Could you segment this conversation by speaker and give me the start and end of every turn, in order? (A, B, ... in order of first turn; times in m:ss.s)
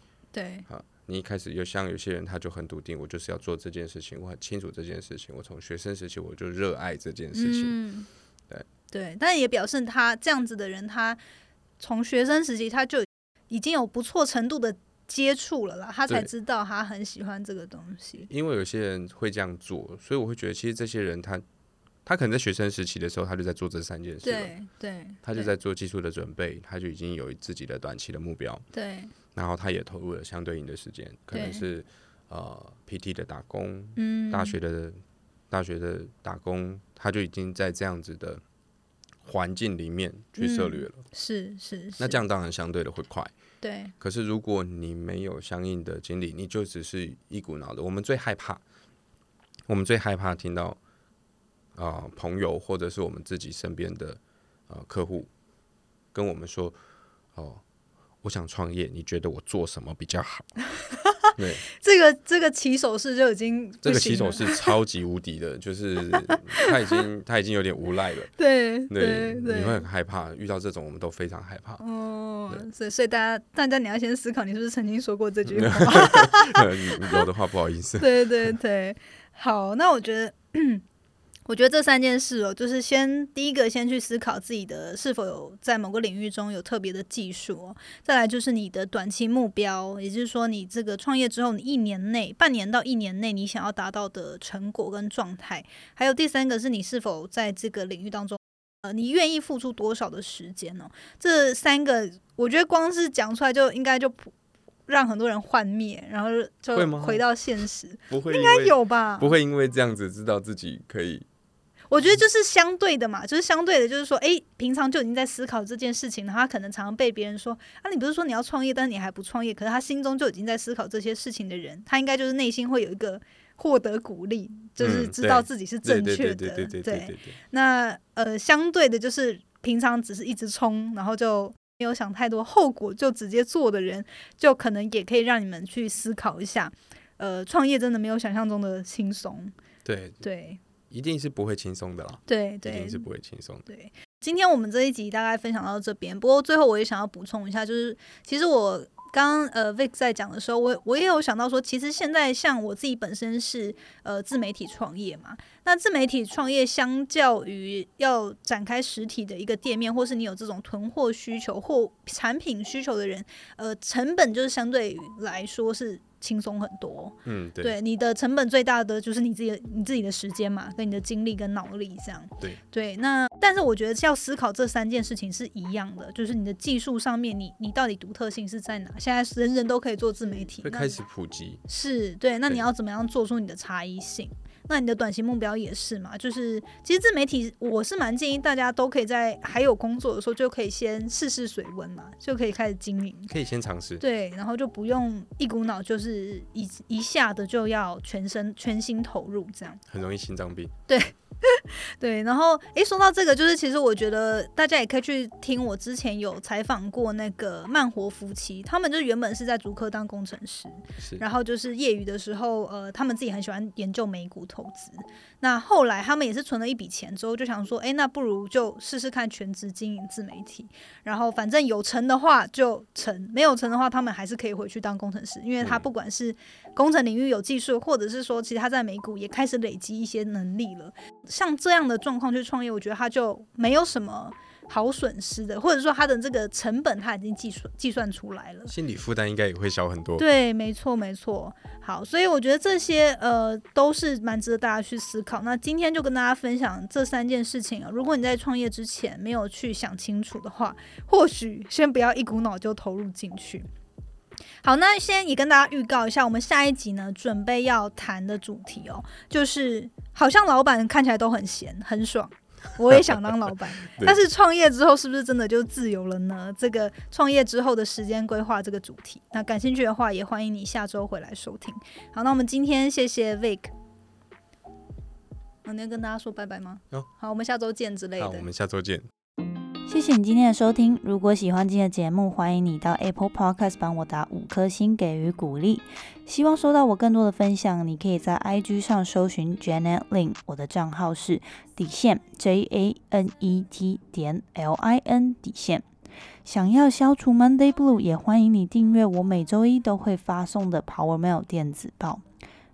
0:00.3-0:00.7 A
0:00.7-0:07.8 B
0:07.3-0:08.1 A
0:08.9-0:11.2 A
0:11.8-0:18.3 A
0:18.3-0:21.4 B
0:22.0-0:24.5 B
0:24.2-0:25.5 A
0:25.2-0:28.6 B
0:28.7-0:29.1 A
0:29.3-0:35.0 B
0:31.3-0:31.6 A
0:34.0-0:34.6 A
0:35.5-0:38.4 B
0:39.2-0:41.0 B
0:40.4-0:42.2 A
0:42.0-0:43.3 B
0:43.6-0:43.9 A
0:44.0-0:48.6 B
0:49.7-0:50.8 B
0:51.8-0:55.3 B
0:56.1-0:56.8 B
0:57.3-0:57.6 B
0:58.2-1:00.5 B
1:00.9-1:04.7 A
1:01.3-1:01.6 B
1:03.8-1:08.3 B
1:06.3-1:07.0 A
1:08.4-1:09.8 A
1:08.9-1:11.8 B
1:11.8-1:17.2 A
1:15.5-1:18.5 B
1:18.0-1:20.8 A
1:21.4-1:44.3 A
1:44.9-1:49.4 A
1:46.7-1:47.2 B
1:48.1-1:51.2 B
1:51.9-2:19.5 A
2:04.8-2:07.4 B
2:19.8-2:20.2 B
2:20.2-2:20.6 A
2:20.9-2:23.6 B
2:22.3-2:23.1 A
2:23.6-3:01.0 A
2:47.2-2:47.8 B
3:00.6-3:01.6 B
3:01.7-3:13.3 A
3:13.3-3:14.0 B
3:14.0-3:19.8 A
3:19.9-3:20.7 B
3:20.9-3:58.7 A
3:31.0-3:31.2 B
3:45.6-3:45.9 B
3:58.7-4:00.2 B
4:00.2-4:13.7 A
4:14.6-4:33.7 A
4:23.8-4:24.2 B
4:35.6-4:38.5 A
4:38.2-4:39.1 B
4:39.9-4:55.8 C
4:56.4-5:02.2 C